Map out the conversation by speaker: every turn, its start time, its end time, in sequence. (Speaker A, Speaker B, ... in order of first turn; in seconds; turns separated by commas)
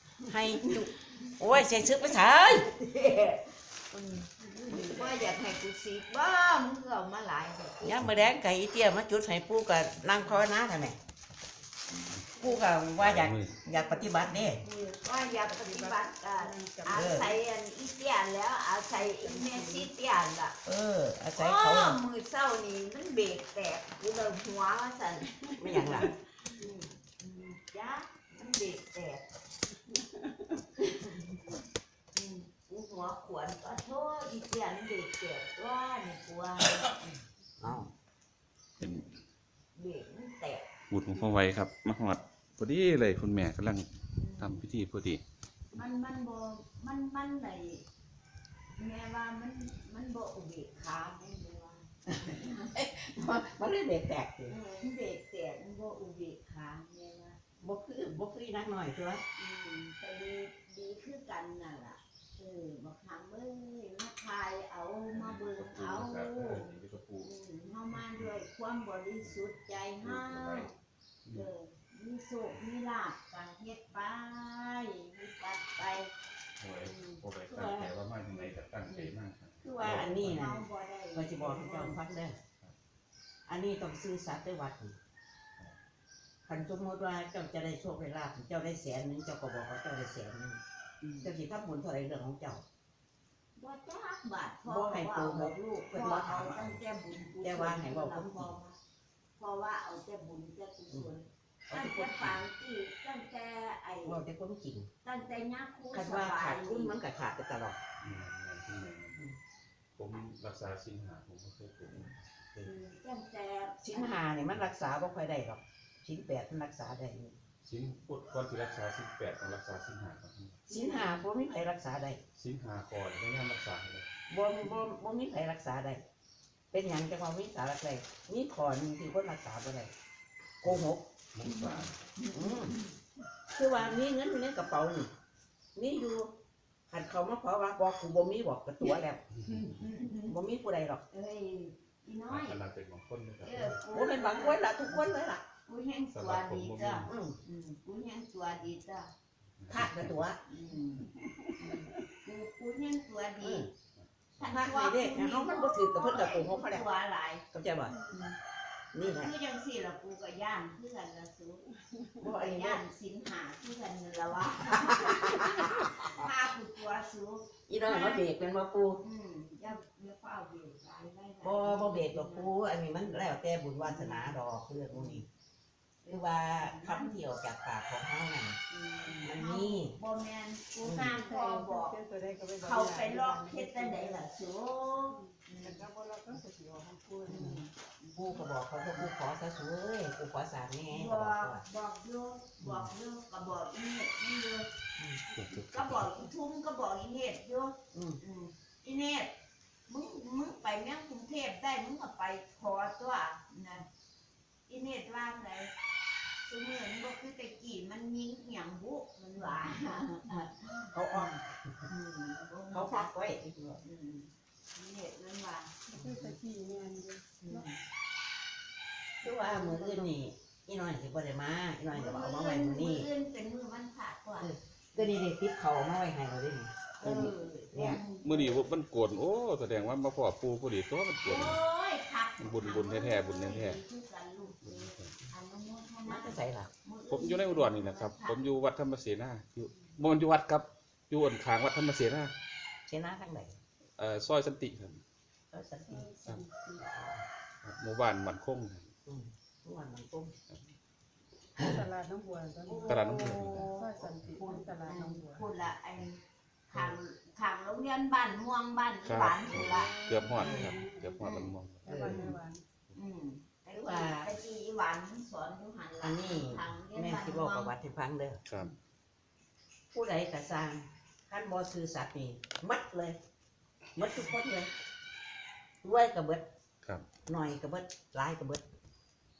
Speaker A: 0.3-2.7, Speaker B: 0.3-8.0, Speaker C: 4.5-4.8, Speaker A: 7.8-11.0, Speaker B: 11.9-12.7, Speaker A: 12.4-14.6, Speaker D: 13.0-13.6, Speaker B: 13.7-20.6, Speaker C: 15.4-17.2, Speaker A: 16.9-17.4, Speaker C: 19.0-19.9, Speaker A: 20.6-22.0, Speaker B: 21.4-29.2, Speaker A: 25.6-26.1, Speaker B: 30.8-31.6, Speaker B: 32.1-37.2, Speaker A: 37.6-37.9, Speaker D: 38.8-39.1, Speaker B: 39.8-40.7, Speaker D: 40.9-45.2, Speaker B: 44.2-44.7, Speaker B: 45.7-47.8, Speaker B: 48.8-52.8, Speaker A: 52.3-54.6, Speaker B: 54.5-57.4, Speaker A: 57.6-59.2, Speaker B: 59.4-70.7, Speaker D: 65.1-67.3, Speaker D: 68.0-68.4, Speaker D: 69.2-70.7, Speaker D: 71.2-71.5, Speaker B: 71.3-76.1, Speaker D: 76.6-80.4, Speaker B: 76.8-82.1, Speaker A: 79.8-82.4, Speaker A: 83.5-85.0, Speaker A: 86.5-90.6, Speaker B: 91.0-91.3, Speaker A: 91.2-92.6, Speaker B: 93.6-98.8, Speaker A: 94.7-96.8, Speaker A: 97.4-98.5, Speaker B: 99.4-104.2, Speaker A: 101.7-102.4, Speaker A: 104.0-104.9, Speaker B: 105.0-107.0, Speaker A: 105.9-107.8, Speaker D: 108.0-109.3, Speaker D: 110.0-112.7, Speaker B: 112.6-114.3, Speaker A: 113.8-117.3, Speaker D: 117.6-120.6, Speaker B: 120.7-121.2, Speaker A: 120.7-122.2, Speaker D: 122.4-124.1, Speaker A: 124.3-126.0, Speaker A: 126.7-129.9, Speaker A: 130.6-131.1, Speaker D: 130.6-131.9, Speaker B: 131.4-133.0, Speaker A: 132.3-132.7, Speaker A: 133.5-135.1, Speaker A: 135.8-136.3, Speaker A: 136.9-139.2, Speaker B: 138.8-140.4, Speaker D: 139.5-139.8, Speaker A: 140.3-141.0, Speaker B: 141.1-142.6, Speaker D: 142.3-143.8, Speaker B: 143.4-145.1, Speaker A: 143.9-145.4, Speaker B: 145.7-149.1, Speaker D: 146.1-147.2, Speaker A: 147.1-147.4, Speaker D: 149.6-150.3, Speaker A: 149.7-150.4, Speaker B: 150.5-153.7, Speaker A: 153.4-153.7, Speaker D: 153.9-154.6, Speaker A: 154.4-156.9, Speaker B: 154.4-157.4, Speaker A: 157.5-158.0, Speaker B: 158.1-158.4, Speaker A: 158.9-159.3, Speaker B: 159.0-161.7, Speaker A: 162.2-162.8, Speaker B: 162.2-168.3, Speaker A: 164.9-166.1, Speaker A: 167.7-169.0, Speaker B: 169.0-172.5, Speaker A: 171.4-175.3, Speaker B: 173.8-174.4, Speaker B: 174.9-175.2, Speaker B: 176.0-177.2, Speaker A: 176.1-180.0, Speaker B: 178.7-181.9, Speaker A: 180.8-181.2, Speaker C: 181.1-184.2, Speaker B: 182.6-185.9, Speaker C: 185.1-187.5, Speaker B: 187.2-189.1, Speaker A: 187.3-191.6, Speaker B: 190.9-194.7, Speaker A: 192.6-192.9, Speaker D: 195.3-196.1, Speaker B: 195.5-199.3, Speaker A: 197.9-198.2, Speaker B: 199.9-203.9, Speaker B: 204.7-205.7, Speaker B: 206.4-215.8, Speaker A: 210.9-211.3, Speaker A: 212.7-213.8, Speaker C: 215.9-217.7, Speaker A: 215.9-216.4, Speaker B: 217.4-217.8, Speaker A: 219.2-223.1, Speaker B: 219.2-220.1, Speaker B: 221.9-224.5, Speaker A: 224.4-228.0, Speaker B: 227.0-228.7, Speaker D: 228.2-231.6, Speaker B: 231.2-238.4, Speaker D: 232.4-233.8, Speaker D: 234.6-235.2, Speaker A: 236.1-236.7, Speaker D: 237.1-242.3, Speaker A: 242.9-243.6, Speaker D: 244.0-245.0, Speaker A: 245.5-246.2, Speaker C: 245.9-246.8, Speaker D: 246.2-246.4, Speaker A: 246.7-247.2, Speaker D: 247.6-248.9, Speaker A: 249.1-250.3, Speaker A: 251.6-251.8, Speaker C: 251.6-255.4, Speaker B: 252.6-253.8, Speaker D: 252.8-254.4, Speaker A: 254.4-254.8, Speaker B: 254.8-261.5, Speaker D: 259.0-262.3, Speaker C: 260.0-261.1, Speaker C: 261.9-262.6, Speaker A: 261.9-262.2, Speaker B: 262.1-262.4, Speaker B: 262.9-267.7, Speaker A: 263.7-264.4, Speaker A: 266.0-268.4, Speaker D: 268.5-268.7, Speaker A: 269.9-273.2, Speaker A: 274.0-274.7, Speaker A: 275.8-276.5, Speaker A: 277.3-278.6